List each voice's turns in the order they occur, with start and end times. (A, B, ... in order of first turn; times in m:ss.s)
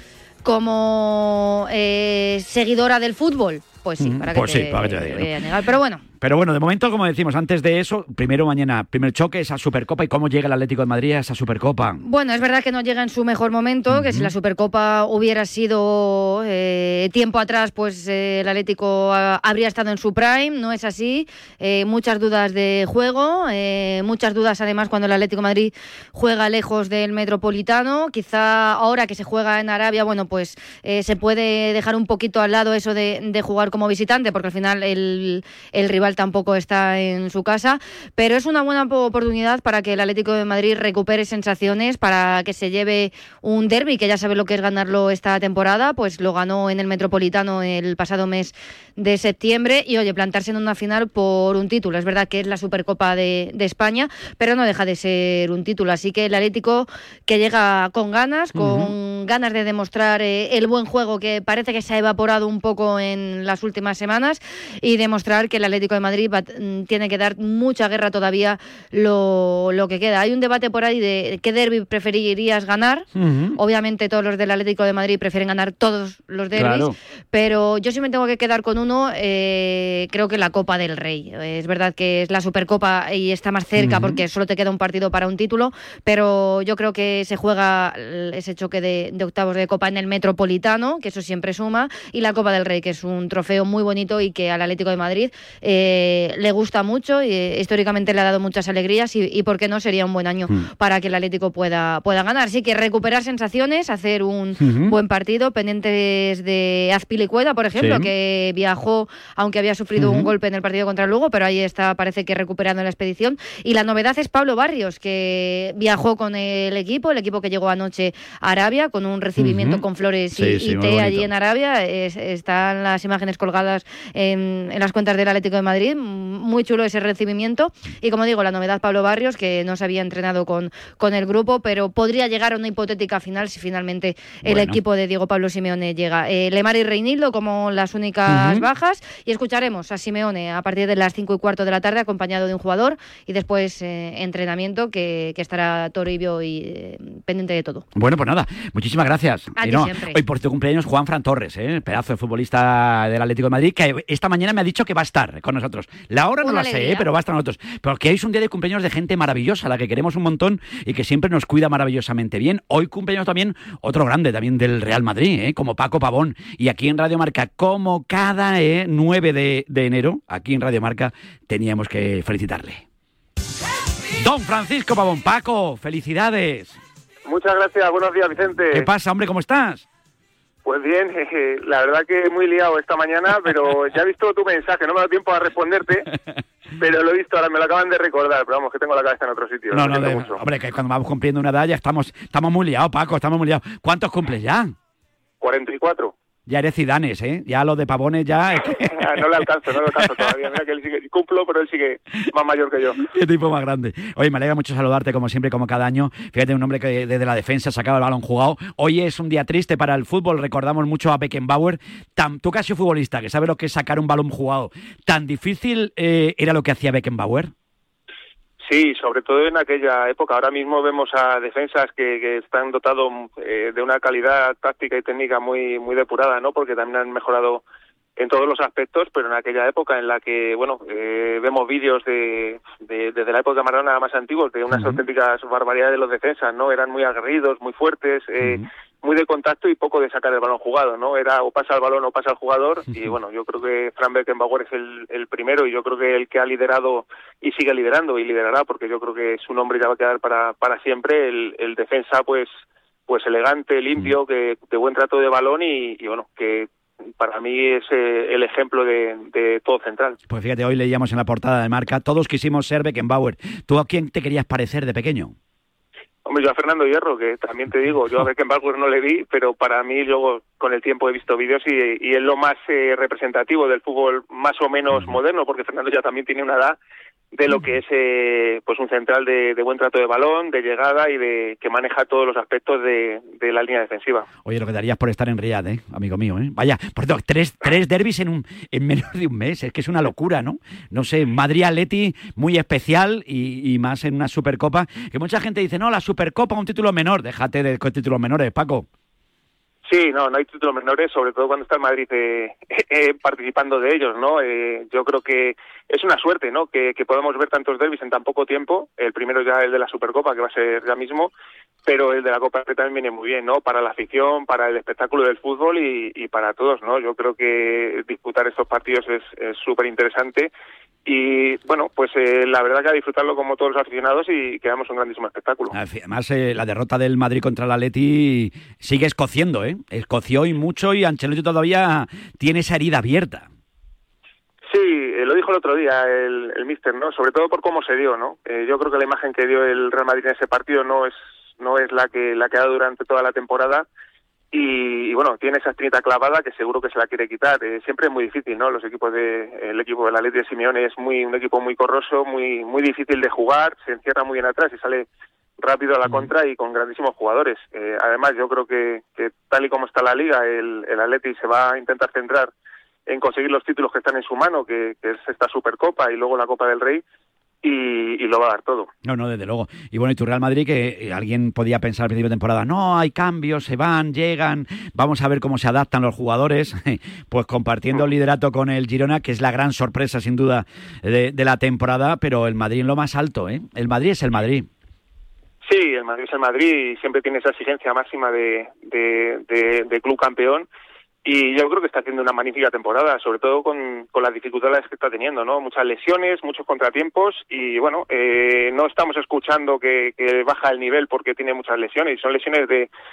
0:00.4-0:06.0 A
0:04.0-0:05.4 B
0:06.2-0:12.0 B
0:12.0-2:27.8 A
0:13.9-0:14.3 B
0:58.5-0:58.9 B
1:13.1-1:13.6 B
1:16.5-1:16.9 B
1:23.8-1:24.2 B
1:44.6-1:44.9 B
1:47.8-1:48.1 B
1:50.0-1:50.3 B
1:59.4-2:01.3 B
2:14.4-2:14.8 B
2:18.2-2:18.6 B
2:27.9-2:52.8 B
2:29.6-2:30.2 A
2:36.4-2:37.1 A
2:54.2-2:56.8 B
2:57.2-2:58.9 C
2:58.7-2:59.8 B
3:00.6-3:06.1 C
3:06.8-3:10.4 C
3:09.7-3:14.7 B
3:15.4-3:16.1 C
3:16.5-3:20.3 B
3:18.9-3:23.0 C
3:23.0-3:37.5 B
3:38.6-3:47.6 C
3:48.2-4:12.5 C
3:54.7-3:55.0 B
3:58.4-3:58.6 B
4:13.1-4:16.7 C
4:17.2-4:20.2 C
4:20.3-4:25.3 B
4:26.2-4:36.8 C
4:34.9-4:35.2 B
4:37.3-4:44.3 C
4:37.5-4:37.8 B
4:44.4-4:58.9 B
4:59.8-5:11.3 C
5:11.8-5:20.5 C
5:21.0-5:25.8 C
5:25.7-5:33.5 B
5:34.7-5:43.8 C
5:44.5-5:55.0 C
5:55.6-6:02.5 C
6:03.1-6:07.0 C
6:07.6-6:08.9 C
6:09.0-6:24.7 B
6:25.6-6:30.6 C
6:31.2-6:42.9 C